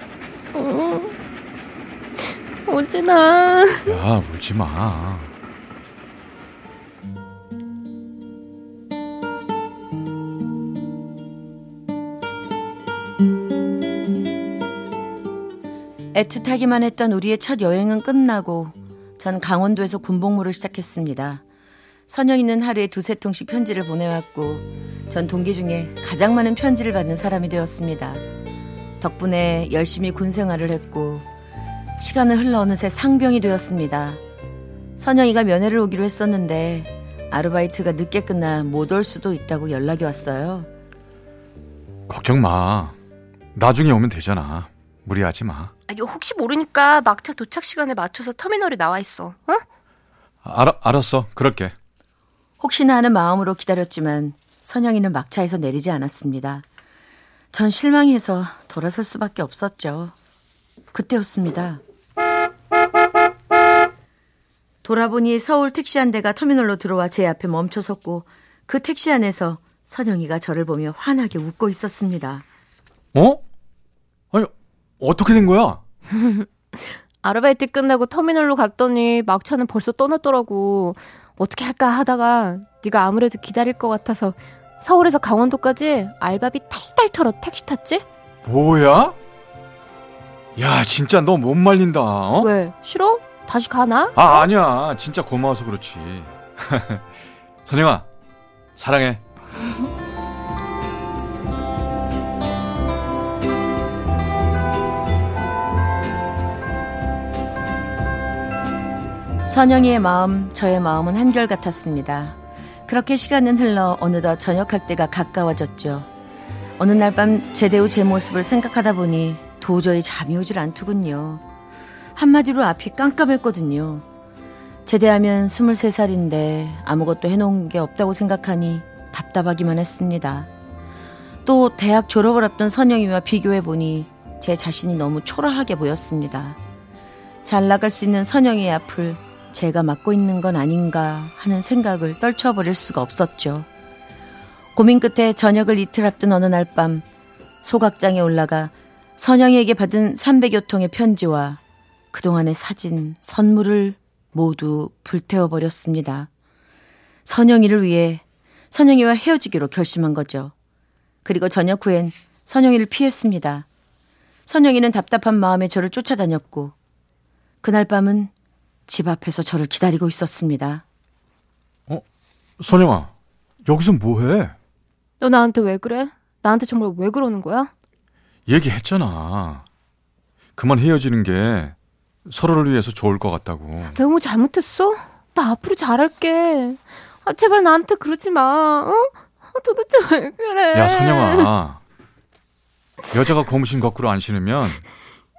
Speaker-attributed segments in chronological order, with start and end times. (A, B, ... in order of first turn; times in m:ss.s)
0:00.5-0:01.1 A
0:02.2-0:04.0 A
0:03.8-0:05.3 B
0:16.1-0:21.4 C
0:22.1-0:28.2 C
0:29.0-0:31.2 C
0:32.0-0:34.2 C
0:35.0-0:40.7 C
0:42.1-0:42.9 B
0:43.5-0:45.7 B
0:45.9-0:49.6 A
0:50.4-0:51.7 B
0:52.6-0:56.6 C
0:57.5-1:00.1 C
1:00.9-1:01.8 C
1:04.8-1:12.4 C
1:13.1-1:13.4 B
1:14.3-1:15.8 B
1:16.1-1:28.0 A
1:28.4-1:29.2 B
1:30.6-1:32.5 B
1:32.4-1:34.5 A
1:34.1-1:37.1 B
1:37.6-1:38.1 B
1:38.8-1:39.2 B
1:49.4-1:56.1 C
1:56.8-2:01.4 C
2:02.2-2:04.0 C
2:04.8-2:10.5 C
2:11.4-2:16.6 C
2:17.4-2:23.7 C
2:24.7-2:27.0 C
2:27.6-2:31.6 C
2:32.1-2:36.3 C
2:37.2-2:40.5 C
2:41.2-2:43.7 C
2:44.5-2:46.7 C
2:47.6-2:48.3 C
2:48.9-2:50.8 C
2:52.6-2:53.1 B
2:53.6-2:54.5 B
2:55.2-2:57.7 A
2:58.5-2:59.6 B
3:00.6-3:01.7 B
3:02.3-3:04.0 B
3:03.9-3:11.5 A
3:10.7-3:11.8 B
3:13.1-3:14.8 B